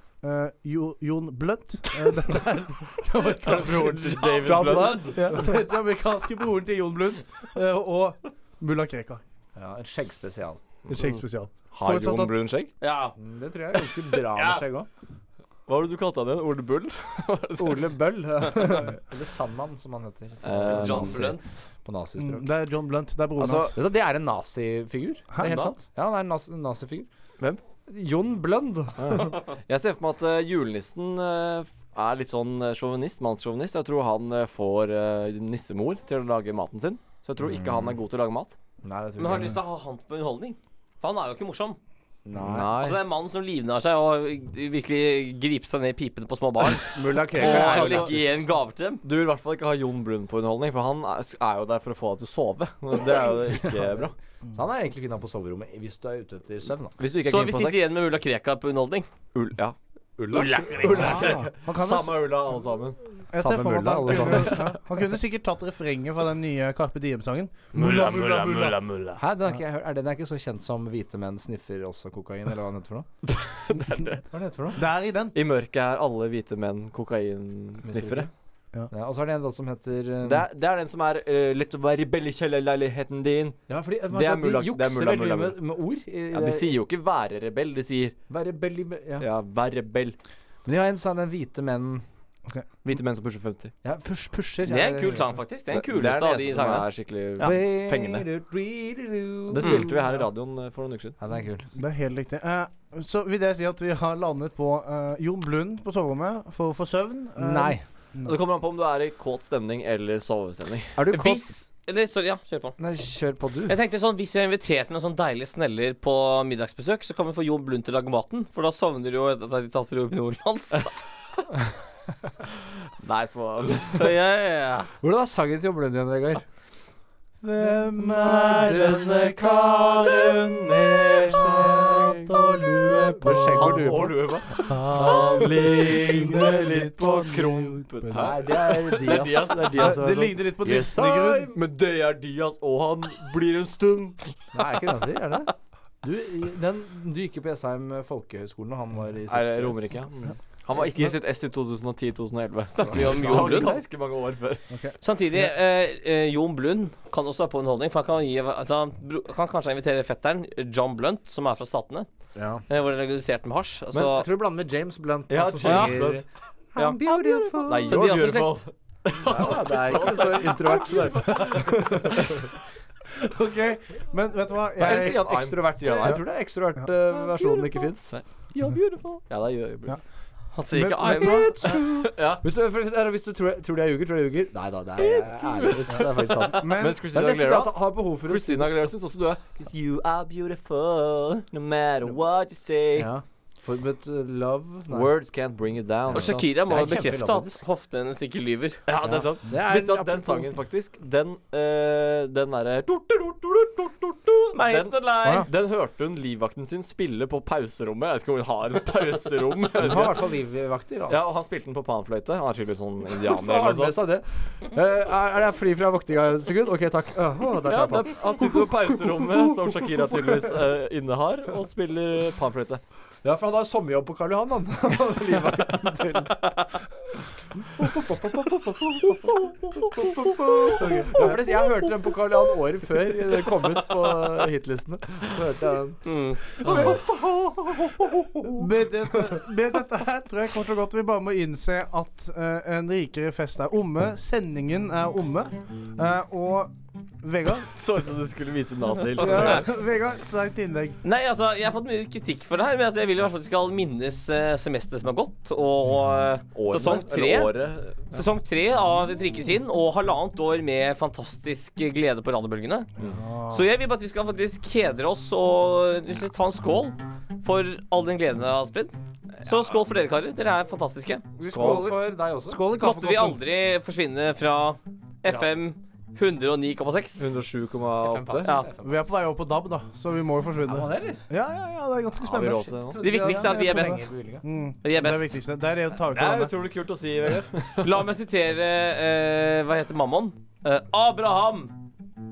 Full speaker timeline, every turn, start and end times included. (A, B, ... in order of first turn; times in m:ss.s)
0:00.2-0:04.4 A
0:03.4-0:05.2 B
0:04.3-0:05.5 C
0:05.0-0:09.2 A
0:09.6-0:10.6 C
0:10.9-0:12.4 A
0:11.7-0:12.7 B
0:12.8-0:13.2 D
0:13.2-0:14.9 C
0:14.3-0:14.6 B
0:15.7-0:17.9 B
0:17.6-0:22.5 C
0:20.4-0:21.3 B
0:20.7-0:21.4 D
0:22.2-0:23.8 A
0:23.4-0:27.1 C
0:25.4-0:25.7 D
0:27.9-0:29.3 C
0:29.0-0:38.6 B
0:37.6-0:37.9 C
0:38.8-0:39.6 C
0:39.2-0:41.8 D
0:42.2-0:42.8 C
0:42.3-0:43.0 B
0:42.7-0:49.0 D
0:46.9-0:48.2 C
0:47.3-0:48.4 B
0:49.0-0:54.1 B
0:53.4-0:57.0 C
0:57.0-0:57.9 B
0:57.1-0:59.1 D
0:59.3-1:03.0 B
1:00.3-1:01.4 D
1:00.9-1:02.3 A
1:03.3-1:08.8 A
1:03.3-1:04.7 C
1:07.7-1:09.2 D
1:09.2-1:13.1 C
1:13.4-1:14.2 B
1:14.3-1:14.8 C
1:14.8-1:15.4 A
1:15.3-1:18.3 B
1:17.8-1:18.3 C
1:18.9-1:20.5 C
1:20.2-1:25.6 B
1:23.7-1:26.8 C
1:26.3-1:28.2 B
1:28.3-1:29.3 C
1:29.2-1:30.2 B
1:30.6-1:32.0 C
1:32.8-1:33.7 B
1:33.8-1:35.3 C
1:34.6-1:37.6 D
1:35.7-1:38.2 B
1:37.4-1:40.2 C
1:39.5-1:41.2 B
1:39.6-1:39.9 D
1:41.2-1:41.6 C
1:41.7-1:48.4 A
1:47.4-1:47.8 C
1:48.2-1:51.1 B
1:51.0-1:51.5 C
1:51.1-1:52.8 D
1:52.8-1:53.7 C
1:53.7-2:00.9 D
2:03.0-2:04.0 B
2:03.9-2:04.9 D
2:05.0-2:06.4 C
2:07.4-2:20.1 B
2:13.2-2:14.3 C
2:14.6-2:18.3 A
2:18.1-2:21.4 C
2:19.4-2:21.5 A
2:20.6-2:24.2 B
2:24.5-2:25.5 C
2:26.0-2:29.9 C
2:29.3-2:34.6 B
2:32.7-2:33.8 D
2:32.8-2:33.8 C
2:35.0-2:42.1 D
2:42.4-2:42.6 C
2:42.7-2:44.3 D
2:43.9-2:48.0 C
2:45.3-2:46.2 B
2:45.6-2:46.1 D
2:46.8-2:48.6 D
2:47.6-2:52.3 B
2:49.2-2:52.1 C
2:51.5-2:52.2 A
2:53.1-2:55.5 A
2:54.8-2:56.3 B
2:54.8-2:58.1 C
2:57.2-3:00.0 B
3:00.5-3:01.6 D
3:00.7-3:01.8 A
3:01.0-3:08.8 C
3:02.0-3:02.4 B
3:05.0-3:13.1 B
3:06.6-3:07.0 A
3:12.9-3:15.1 C
3:14.9-3:16.4 B
3:16.1-3:17.6 C
3:16.1-3:18.8 D
3:18.9-3:30.3 B
3:19.0-3:20.6 C
3:24.5-3:25.4 D
3:29.8-3:31.2 C
3:31.1-3:34.1 B
3:33.2-3:39.5 C
3:37.6-3:42.8 B
3:43.2-3:46.4 C
3:47.8-3:56.0 C
3:50.8-3:51.4 A
3:56.0-3:56.5 D
3:56.6-3:58.4 C
3:56.6-3:57.0 A
3:58.3-4:07.7 A
4:07.7-4:09.6 B
4:09.2-4:11.0 A
4:09.3-4:09.6 D
4:11.0-4:22.9 D
4:16.5-4:18.2 B
4:23.0-4:23.6 A
4:23.5-4:31.3 D
4:31.4-4:33.4 C
4:31.4-4:32.0 B
4:32.5-4:37.2 D
4:37.2-4:38.6 B
4:38.0-4:39.0 C
4:38.8-4:46.5 A
4:40.7-4:41.2 C
4:42.2-4:43.2 B
4:42.8-4:44.4 C
4:43.0-4:44.0 D
4:44.8-4:45.3 D
4:46.1-4:47.9 B
4:47.8-4:51.7 D